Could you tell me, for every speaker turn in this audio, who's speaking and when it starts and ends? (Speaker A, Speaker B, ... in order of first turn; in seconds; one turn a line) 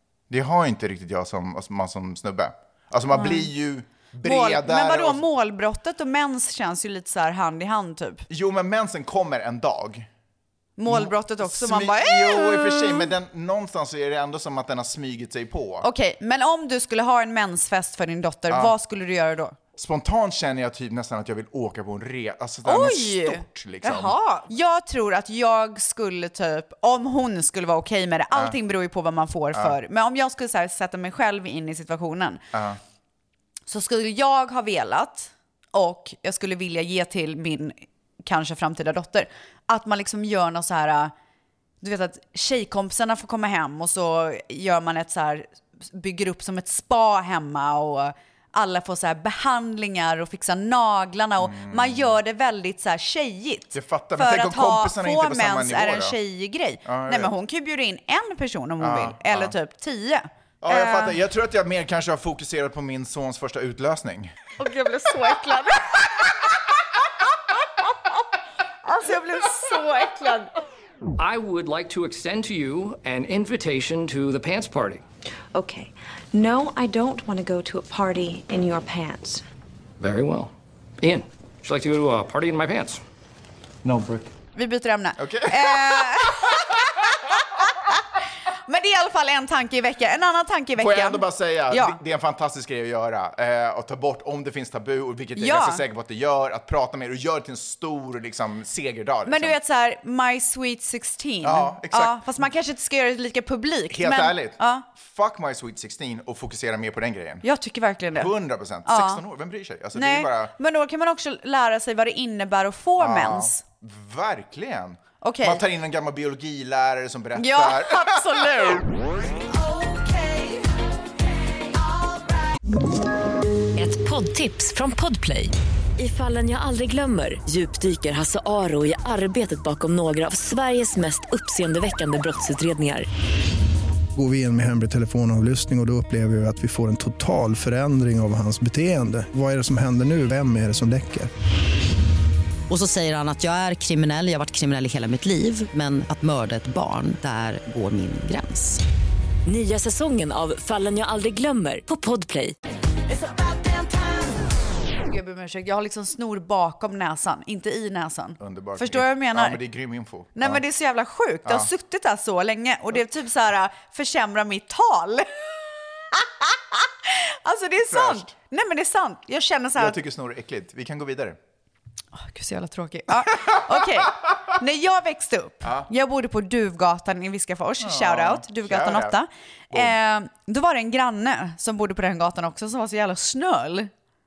Speaker A: 0.3-5.2
Speaker B: 3.1-3.5
Speaker B: 4.2-8.3
Speaker A: 8.3-10.1
Speaker B: 10.8-13.1
Speaker A: 10.9-15.9
Speaker B: 15.8-19.6
Speaker A: 18.5-18.7
Speaker A: 19.7-24.2
Speaker B: 22.6-32.4
Speaker A: 32.5-32.8
Speaker B: 33.7-41.1
Speaker B: 41.8-61.2
Speaker A: 51.4-52.1
Speaker A: 53.7-56.2
Speaker A: 56.9-57.3
Speaker A: 58.8-59.5
Speaker A: 60.6-64.4
Speaker B: 64.6-66.4
Speaker B: 68.8-70.5
Speaker C: 71.2-75.0
Speaker D: 75.5-79.4
Speaker C: 80.0-83.0
Speaker C: 83.8-84.3
Speaker B: 84.5-88.0
Speaker A: 85.2-86.6
Speaker B: 88.7-92.0
Speaker A: 90.8-99.5
Speaker B: 95.4-95.8
Speaker B: 99.3-104.9
Speaker A: 101.4-102.4
Speaker A: 103.9-107.5
Speaker B: 107.4-108.3
Speaker A: 108.1-110.5
Speaker B: 108.8-109.2
Speaker B: 110.0-113.6
Speaker A: 113.0-118.8
Speaker B: 115.2-115.6
Speaker B: 117.3-118.9
Speaker B: 119.7-120.5
Speaker E: 123.8-133.1
Speaker F: 134.2-141.3
Speaker G: 142.7-148.8
Speaker E: 149.5-152.6
Speaker B: 155.0-159.6
Speaker A: 158.4-160.6
Speaker B: 160.4-165.6
Speaker B: 166.1-170.0
Speaker A: 167.9-168.3
Speaker A: 169.8-171.4
Speaker B: 172.2-183.9
Speaker A: 173.5-173.7
Speaker A: 175.6-175.9
Speaker A: 177.8-179.2